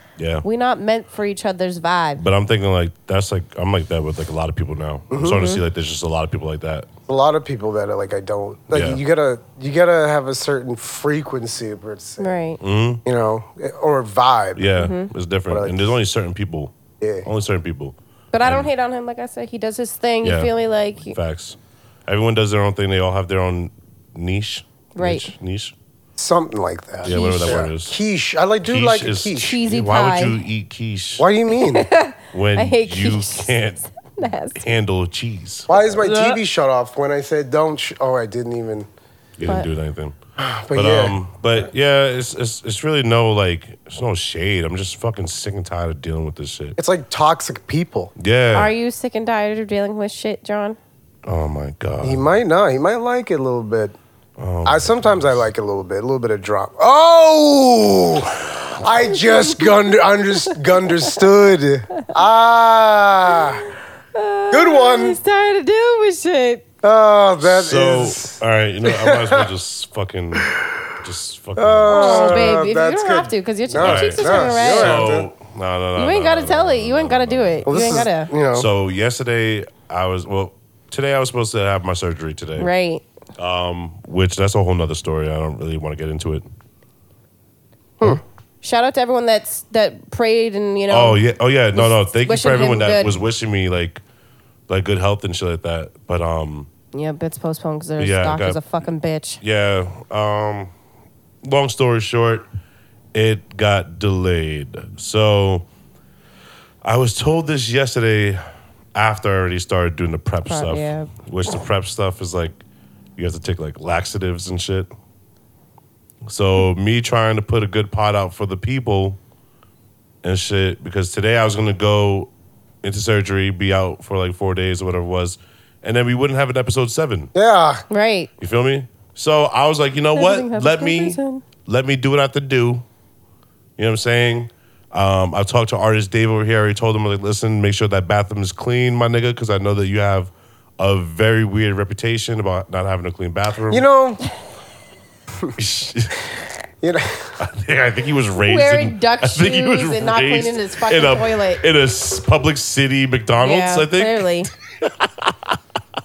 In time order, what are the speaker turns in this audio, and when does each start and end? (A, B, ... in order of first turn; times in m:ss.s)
0:00.2-0:00.4 A
0:00.4-0:02.2 B
0:02.2-0:06.9 A
0:05.1-0:05.4 C
0:05.3-0:05.6 B
0:07.1-0:12.3 C
0:08.7-0:09.0 A
0:12.2-0:12.6 B
0:12.6-0:13.0 A
0:13.0-0:14.7 C
0:14.6-0:16.7 A
0:14.8-0:15.1 B
0:15.5-0:15.9 C
0:17.0-0:17.2 C
0:17.2-0:18.7 A
0:18.3-0:21.2 B
0:20.2-0:20.5 A
0:21.0-0:25.7 A
0:25.0-0:25.3 B
0:26.2-0:29.6 C
0:27.0-0:28.0 A
0:27.0-0:27.6 B
0:28.6-0:31.2 A
0:29.3-0:30.4 B
0:31.2-0:31.9 C
0:31.5-0:34.7 B
0:32.3-0:33.8 A
0:34.6-0:35.7 A
0:35.7-0:38.9 C
0:35.7-0:36.4 B
0:39.4-0:40.2 A
0:40.4-0:41.2 C
0:40.7-0:46.8 A
0:46.8-0:48.1 C
0:48.2-0:48.7 A
0:48.5-0:50.8 B
0:51.2-0:52.3 A
0:52.0-0:54.0 C
0:54.4-0:55.5 A
0:54.6-1:03.6 C
1:04.1-1:06.6 B
1:04.5-1:05.2 C
1:06.8-1:09.5 C
1:07.4-1:12.6 A
1:11.6-1:15.3 C
1:11.9-1:15.1 B
1:13.8-1:17.7 A
1:16.0-1:18.3 B
1:17.6-1:18.7 C
1:18.5-1:22.7 A
1:22.6-1:23.0 B
1:23.4-1:26.5 A
1:28.6-1:31.2 B
1:30.9-1:34.0 A
1:31.7-1:33.2 B
1:34.7-1:36.7 A
1:36.9-1:39.4 B
1:38.0-1:38.6 A
1:39.4-1:40.7 A
1:41.4-1:42.4 A
1:43.1-1:45.6 A
1:46.8-1:48.4 A
1:48.9-1:52.6 A
1:50.4-1:51.1 B
1:53.2-1:54.9 A
1:56.2-1:59.2 A
2:00.2-2:02.3 A
2:02.8-2:07.3 A
2:07.3-2:07.8 C
2:07.9-2:08.3 B
2:08.4-2:12.8 A
2:10.1-2:11.4 B
2:13.8-2:23.8 A
2:23.7-2:24.2 C
2:25.6-2:26.2 A
2:26.8-2:27.3 C
2:27.4-2:35.6 A
2:28.4-2:31.6 B
2:33.4-2:34.5 B